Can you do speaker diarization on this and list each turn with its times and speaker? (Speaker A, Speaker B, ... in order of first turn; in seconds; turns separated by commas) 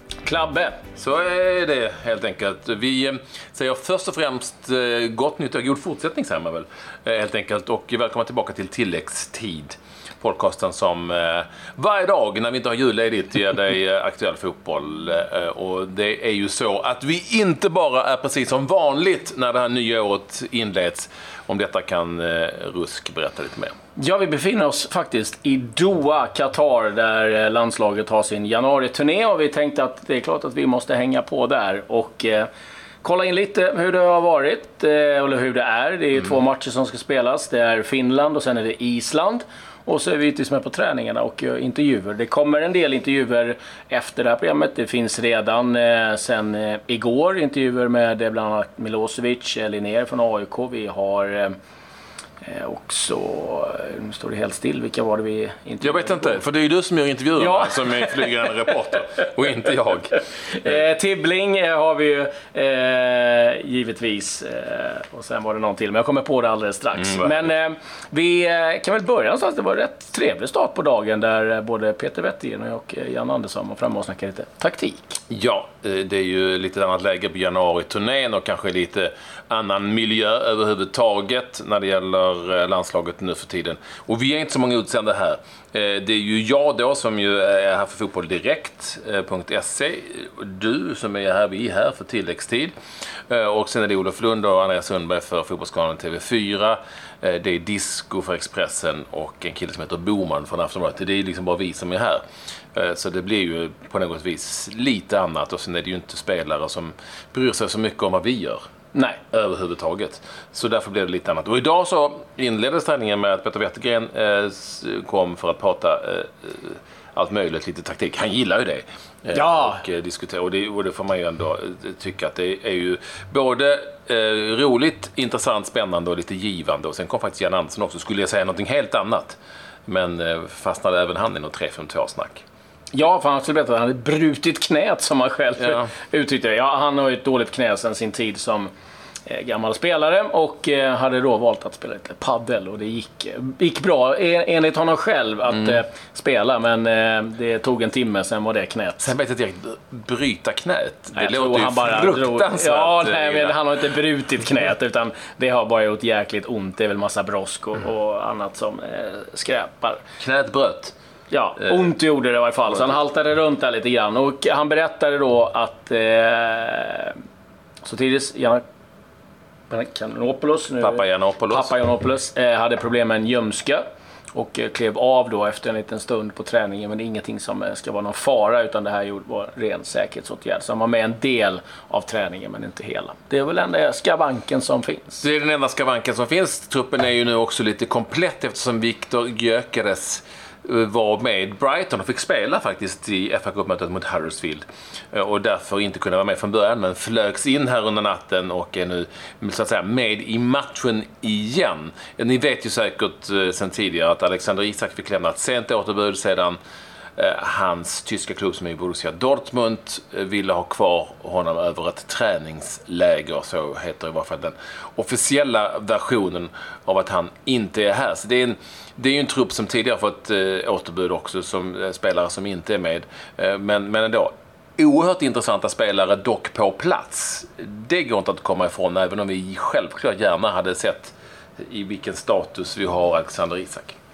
Speaker A: 0.2-0.8, Speaker B: 0.9-23.7, Speaker A: 24.0-32.5, Speaker A: 33.0-51.6, Speaker A: 52.4-56.4, Speaker B: 55.8-60.8, Speaker A: 57.3-59.0, Speaker A: 60.5-75.2, Speaker B: 67.0-67.5, Speaker B: 75.3-92.7, Speaker B: 93.3-102.2, Speaker B: 102.7-108.6, Speaker B: 109.3-132.4, Speaker A: 119.3-119.8, Speaker A: 132.9-138.7, Speaker B: 135.6-135.9, Speaker A: 139.2-149.1, Speaker B: 145.5-145.8, Speaker B: 149.0-154.0, Speaker A: 151.1-160.0, Speaker B: 160.2-160.9, Speaker A: 161.3-167.2, Speaker A: 167.8-168.6, Speaker A: 169.7-185.2, Speaker B: 170.8-171.8, Speaker B: 185.2-206.6, Speaker B: 207.2-233.9